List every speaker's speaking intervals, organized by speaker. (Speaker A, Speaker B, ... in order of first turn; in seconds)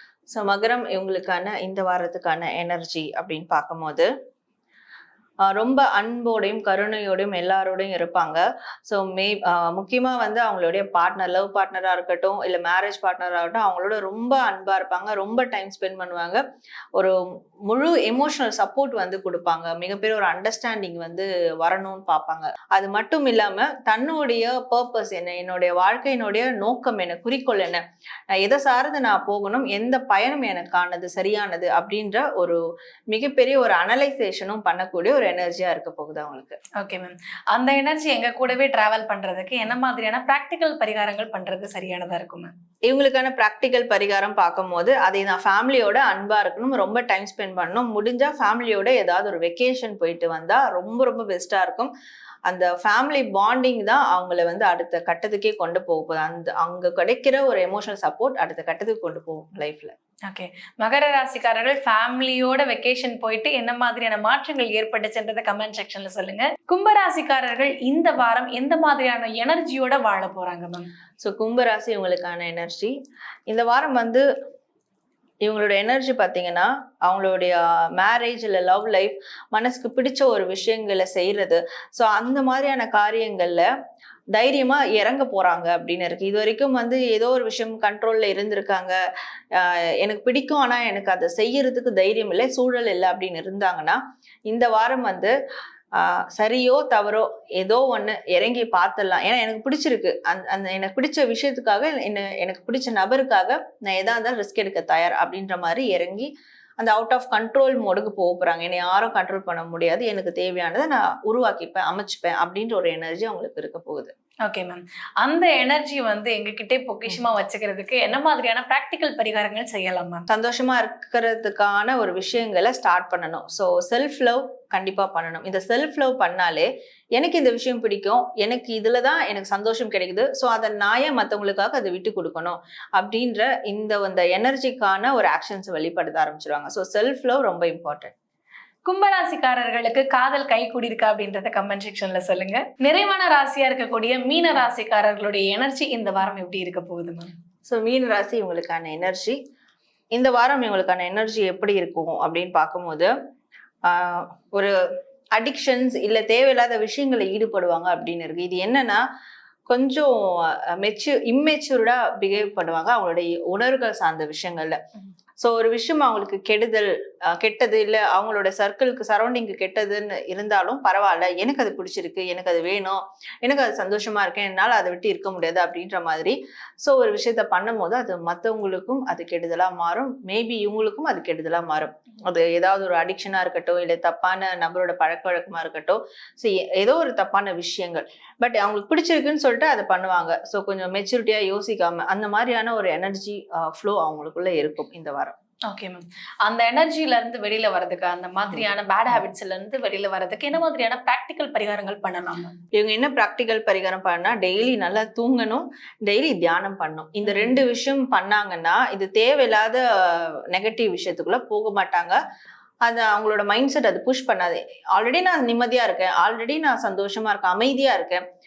Speaker A: 0.3-4.1, 5.5-16.4, 17.7-27.8, 28.4-32.6, 33.1-36.6, 42.9-51.9, 52.5-59.9, 71.2-73.0, 73.5-74.2, 75.4-83.7, 84.3-89.0, 89.5-95.3, 96.0-114.1, 120.3-138.1, 147.7-149.4, 150.1-153.1, 153.9-154.7, 155.4-159.0, 159.7-164.8, 165.4-195.3, 202.7-212.2, 212.9-218.2
Speaker B: 36.8-42.5, 60.3-70.9, 114.5-120.2, 138.9-147.3, 195.7-202.5, 207.3-207.6